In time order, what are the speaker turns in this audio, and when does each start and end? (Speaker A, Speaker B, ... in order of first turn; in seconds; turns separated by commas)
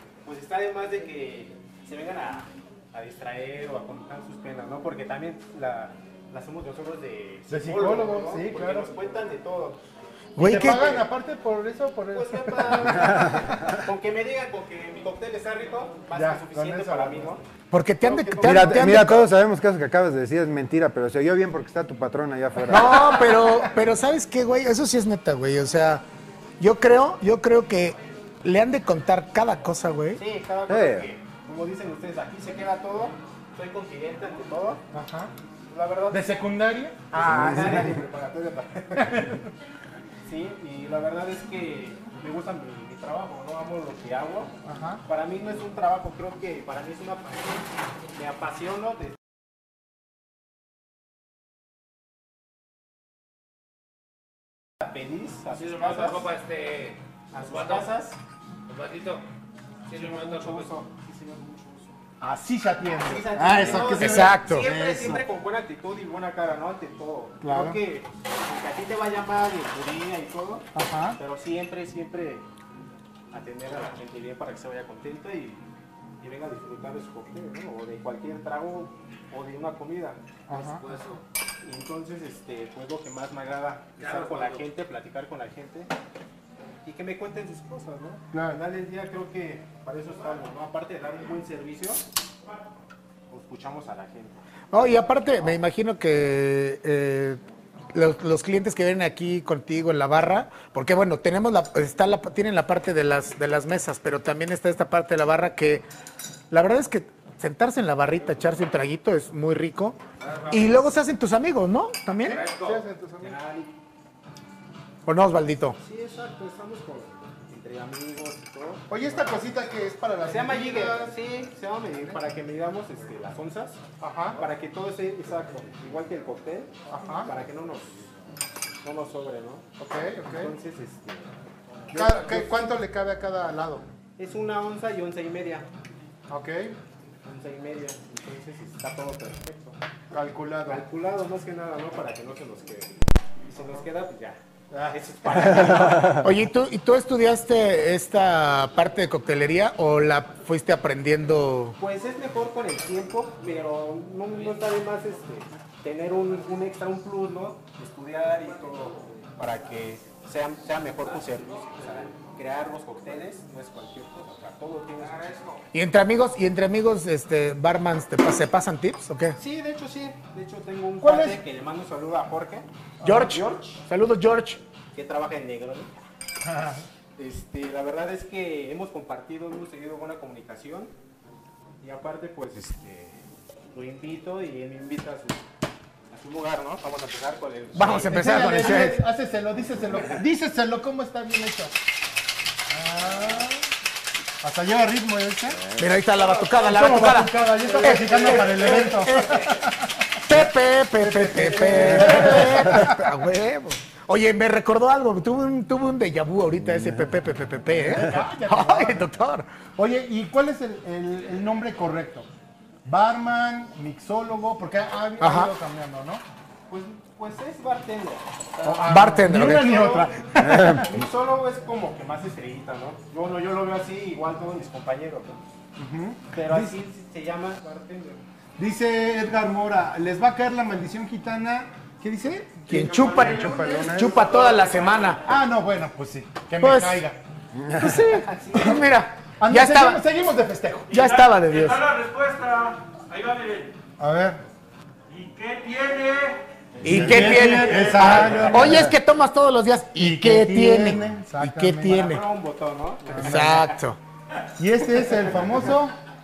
Speaker A: 0.2-9.8, Speaker B: 7.5-8.9, Speaker C: 10.3-11.1, Speaker B: 10.4-13.5, Speaker A: 10.7-11.0, Speaker A: 12.1-17.4, Speaker B: 16.1-17.3, Speaker C: 17.7-19.3, Speaker A: 18.0-18.9, Speaker D: 18.4-23.1, Speaker C: 22.7-26.0, Speaker B: 23.0-23.6, Speaker C: 26.6-30.2, Speaker A: 30.1-34.8, Speaker D: 30.7-31.1, Speaker B: 34.9-35.3, Speaker A: 35.7-36.2, Speaker B: 36.1-38.0, Speaker A: 37.1-39.2, Speaker D: 37.2-37.9, Speaker B: 39.0-39.4, Speaker A: 40.2-44.5, Speaker B: 44.6-45.0, Speaker A: 45.1-49.1, Speaker A: 54.8-56.7, Speaker A: 57.3-58.2, Speaker A: 58.8-59.1, Speaker A: 59.9-61.9, Speaker B: 62.2-65.2, Speaker A: 63.0-72.5, Speaker C: 63.9-64.7, Speaker B: 67.4-67.8, Speaker B: 70.7-71.2, Speaker A: 73.3-75.6, Speaker A: 76.2-85.9, Speaker B: 80.5-80.8, Speaker A: 86.8-92.0, Speaker B: 88.3-88.6, Speaker A: 93.3-94.4, Speaker C: 94.7-97.4, Speaker C: 97.9-105.8, Speaker C: 106.5-112.4, Speaker B: 112.2-113.4, Speaker A: 112.2-113.7, Speaker C: 115.0-115.8, Speaker A: 115.8-118.8, Speaker B: 118.9-121.1, Speaker A: 120.2-123.8, Speaker B: 124.0-124.4, Speaker A: 124.3-126.7, Speaker B: 126.9-127.3, Speaker A: 127.2-128.1, Speaker A: 128.8-129.7, Speaker B: 129.8-130.5, Speaker A: 130.3-131.3, Speaker A: 131.9-132.7, Speaker B: 131.9-133.8, Speaker A: 134.2-135.7, Speaker B: 136.3-136.8, Speaker A: 137.2-139.8, Speaker B: 140.1-140.8, Speaker A: 140.7-142.9, Speaker A: 143.5-146.2, Speaker B: 144.7-145.0, Speaker C: 146.2-151.8, Speaker A: 151.8-165.5, Speaker C: 165.7-169.4, Speaker A: 169.4-173.8, Speaker B: 171.0-171.4, Speaker C: 173.0-174.6, Speaker A: 174.9-175.9, Speaker B: 176.5-176.8, Speaker A: 177.2-180.9, Speaker A: 181.8-185.4, Speaker A: 186.1-188.2, Speaker C: 187.7-189.0, Speaker B: 188.1-191.7, Speaker B: 192.7-193.6, Speaker B: 194.4-195.6, Speaker C: 195.8-199.4, Speaker B: 196.6-199.9, Speaker C: 200.2-209.5, Speaker B: 201.0-203.0, Speaker B: 207.8-209.0, Speaker B: 209.8-212.3, Speaker B: 212.8-216.2, Speaker C: 215.2-215.5, Speaker A: 216.7-220.1, Speaker B: 218.6-220.9, Speaker C: 218.9-219.9, Speaker D: 220.4-221.0, Speaker A: 220.8-225.4, Speaker B: 225.8-226.7, Speaker A: 226.3-228.2, Speaker B: 228.6-234.0, Speaker C: 232.7-235.2, Speaker D: 232.7-234.2, Speaker E: 233.0-235.2, Speaker B: 235.2-237.2, Speaker C: 236.6-237.0, Speaker D: 237.5-238.0, Speaker C: 237.8-240.0, Speaker A: 238.2-238.8, Speaker B: 239.4-240.9, Speaker E: 240.9-243.8, Speaker C: 240.9-241.8, Speaker B: 244.0-244.4, Speaker E: 245.1-248.8, Speaker C: 246.8-252.2, Speaker B: 246.8-248.9, Speaker B: 250.0-252.1, Speaker A: 251.8-253.7, Speaker B: 253.1-253.6, Speaker C: 253.2-254.0, Speaker B: 254.6-255.9